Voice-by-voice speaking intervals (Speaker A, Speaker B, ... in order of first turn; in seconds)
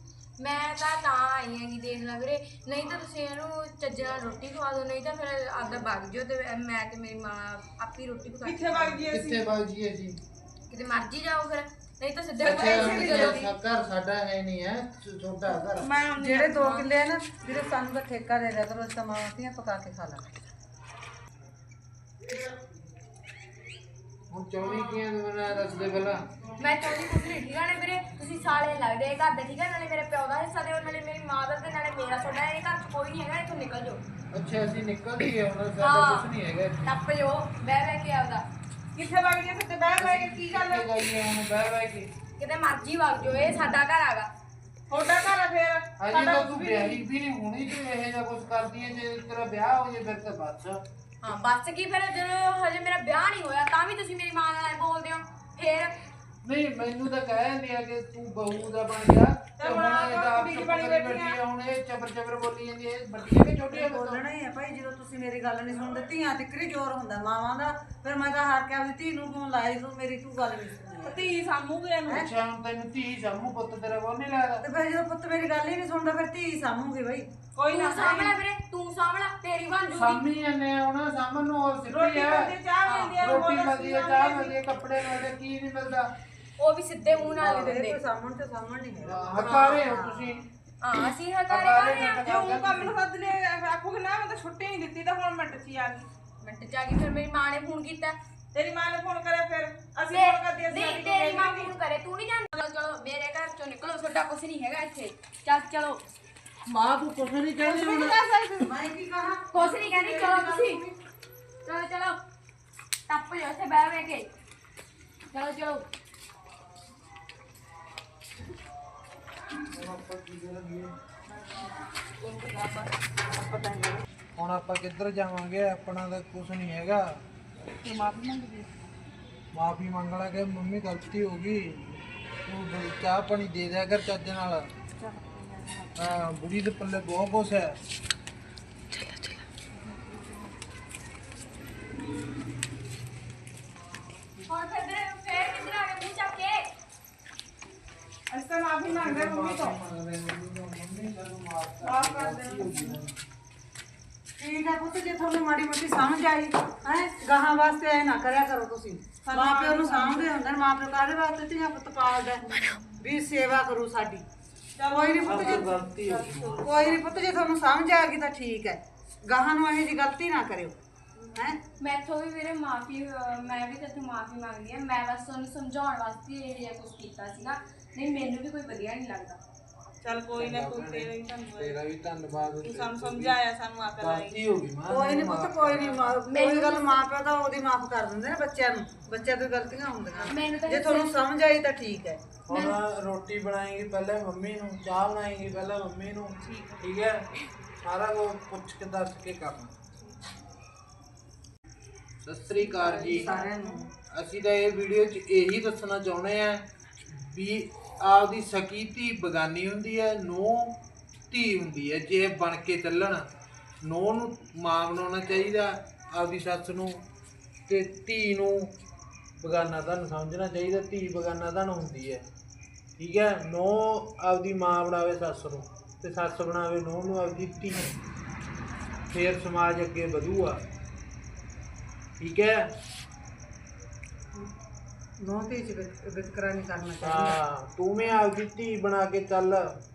Speaker A: 0.4-9.0, 10.7-13.4, 26.6-34.0, 35.8-36.3, 36.8-38.4, 42.4-44.3, 51.2-55.9, 77.7-80.2, 82.8-83.2, 86.6-88.0, 89.5-89.8, 90.8-92.2, 96.4-98.2, 100.1-106.0, 109.5-110.8, 111.6-112.2, 113.1-114.3, 115.3-115.9, 144.4-146.7, 171.8-179.4, 186.2-187.0, 190.2-191.1
Speaker B: 8.4-9.4, 12.4-13.5, 15.7-16.9, 38.9-40.9, 44.9-47.0, 59.6-61.4, 71.0-72.2, 77.5-78.3, 81.9-84.6, 92.1-96.1, 98.5-101.7, 107.6-108.7, 122.2-124.0, 127.8-128.8, 135.0-136.0, 148.3-149.8, 151.8-153.0, 159.2-160.3, 164.8-167.1, 180.0-181.8, 182.6-184.4, 196.4-196.8, 202.6-203.8
Speaker C: 9.1-10.2, 12.4-15.9, 24.3-26.2, 34.3-36.9, 40.0-42.1, 46.0-50.8, 56.4-64.2, 72.1-74.6, 80.0-82.5, 83.2-86.1, 89.0-90.5, 91.5-93.0, 106.7-108.2, 119.7-120.9, 124.4-127.2, 129.5-134.7, 136.0-137.8, 148.8-153.2, 165.2-166.9, 180.3-183.3, 184.0-186.0, 192.5-197.2, 197.8-199.7, 202.2-203.3, 204.1-210.8, 211.3-213.2, 213.8-217.0, 217.7-218.7, 219.4-222.2, 223.0-227.9, 229.1-230.6, 232.2-232.7, 237.0-239.7
Speaker D: 16.2-20.2, 63.7-71.3, 74.6-77.3, 87.1-90.4, 108.6-110.9, 154.4-164.2, 164.9-165.7, 166.6-170.8, 171.3-171.6, 184.9-192.2, 202.9-203.9, 235.2-237.4